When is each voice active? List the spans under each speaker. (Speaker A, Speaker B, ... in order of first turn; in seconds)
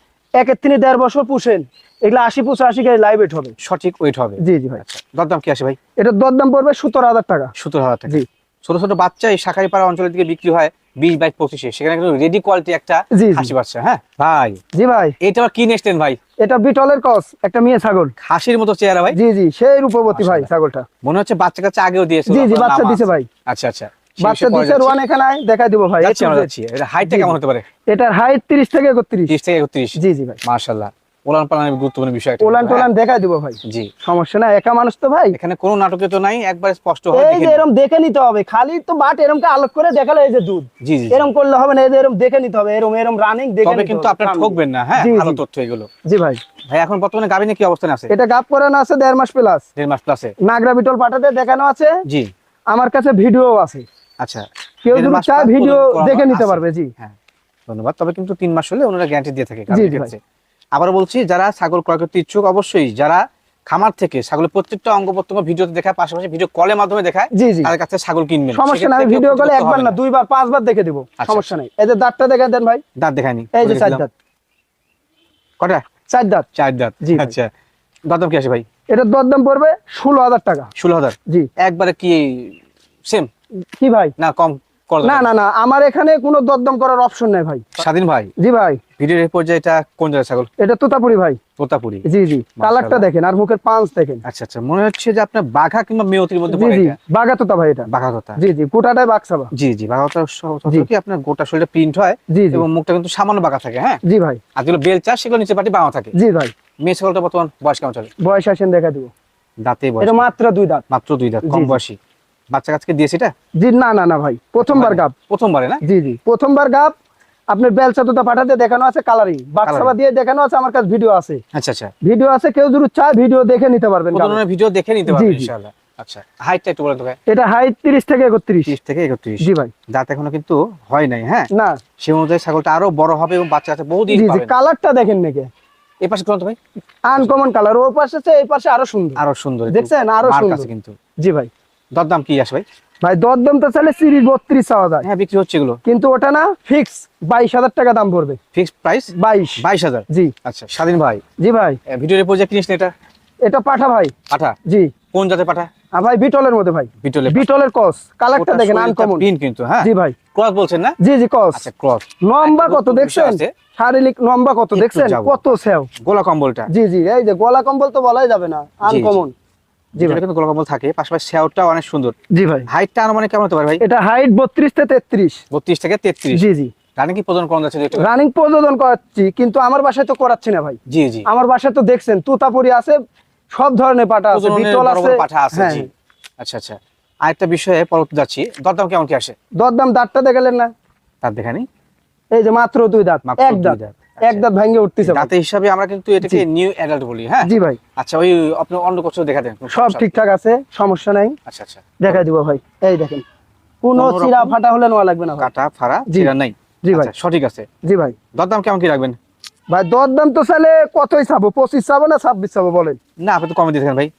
Speaker A: 0.4-3.5, 4.4-4.8, 6.0-7.5, 13.1-13.5, 14.8-15.2, 16.4-18.1, 19.1-20.9, 22.3-23.3, 24.2-26.5, 27.0-27.4, 27.9-29.4, 30.0-30.4, 32.4-35.4, 37.1-45.4, 46.1-46.4, 48.1-49.6, 50.5-52.0, 52.7-53.9, 54.9-56.9, 59.7-60.1, 67.3-67.7, 68.5-72.8, 73.5-74.1, 76.1-76.5, 77.0-77.3, 78.9-80.7, 83.8-84.1, 85.0-87.7, 88.4-88.8, 90.6-91.4, 92.0-94.2, 96.5-99.5, 102.3-102.7, 104.0-104.4, 106.1-106.5, 108.2-109.1, 110.0-110.8, 111.5-111.8, 113.6-115.1, 115.8-116.9, 117.5-121.4, 122.0-124.4, 125.1-125.5, 127.3-128.7, 129.4-129.7, 131.5-131.8, 134.1-135.5, 137.1-140.7, 141.2-141.5, 143.0-145.1, 145.9-148.4, 149.1-150.3, 151.4-151.8, 153.4-154.1, 154.7-154.9, 155.9-159.2, 159.8-160.2, 161.0-161.6, 162.2-165.9, 166.7-169.3, 170.0-170.2, 172.3-172.7, 173.8-175.4, 176.3-176.7, 177.9-183.0, 183.5-185.9, 189.6-190.7, 192.3-195.3, 197.4-197.8, 199.7-201.4, 202.0-203.2, 203.8-205.5, 206.8-207.1, 207.8-208.2, 209.7-213.0
Speaker B: 3.6-5.8, 7.6-14.6, 15.2-16.2, 18.2-19.2, 20.1-20.5, 21.0-25.0, 26.0-27.6, 29.3-32.9, 33.6-33.9, 35.3-37.6, 40.8-41.3, 43.6-45.9, 46.7-48.1, 49.8-50.3, 54.2-57.1, 57.7-60.2, 60.8-70.0, 71.2-71.5, 73.0-74.0, 76.5-77.5, 78.1-78.7, 80.8-83.3, 84.2-85.3, 87.8-88.3, 89.0-90.5, 91.6-92.1, 92.6-93.1, 94.2-97.0, 97.9-98.4, 99.5-104.0, 104.6-106.1, 106.8-108.1, 109.6-110.3, 110.9-112.0, 112.5-113.3, 114.6-115.8, 119.6-119.9, 121.5-121.9, 124.1-127.2, 128.7-131.5, 132.0-134.5, 136.0-136.6, 139.2-141.0, 141.9-142.6, 145.0-145.8, 148.5-151.2, 151.9-152.9, 154.3-154.6, 155.1-155.7, 157.0-157.5, 158.3-161.0, 161.5-163.5, 164.7-165.4, 166.0-166.7, 168.8-169.2, 170.0-172.1, 172.7-173.8, 175.5-176.4, 177.0-178.1, 180.9-181.3, 184.3-189.3, 191.2-191.7, 193.2-194.5, 195.0-200.1, 201.5-202.2, 204.0-204.6, 205.4-207.7, 208.3-209.2, 213.2-214.1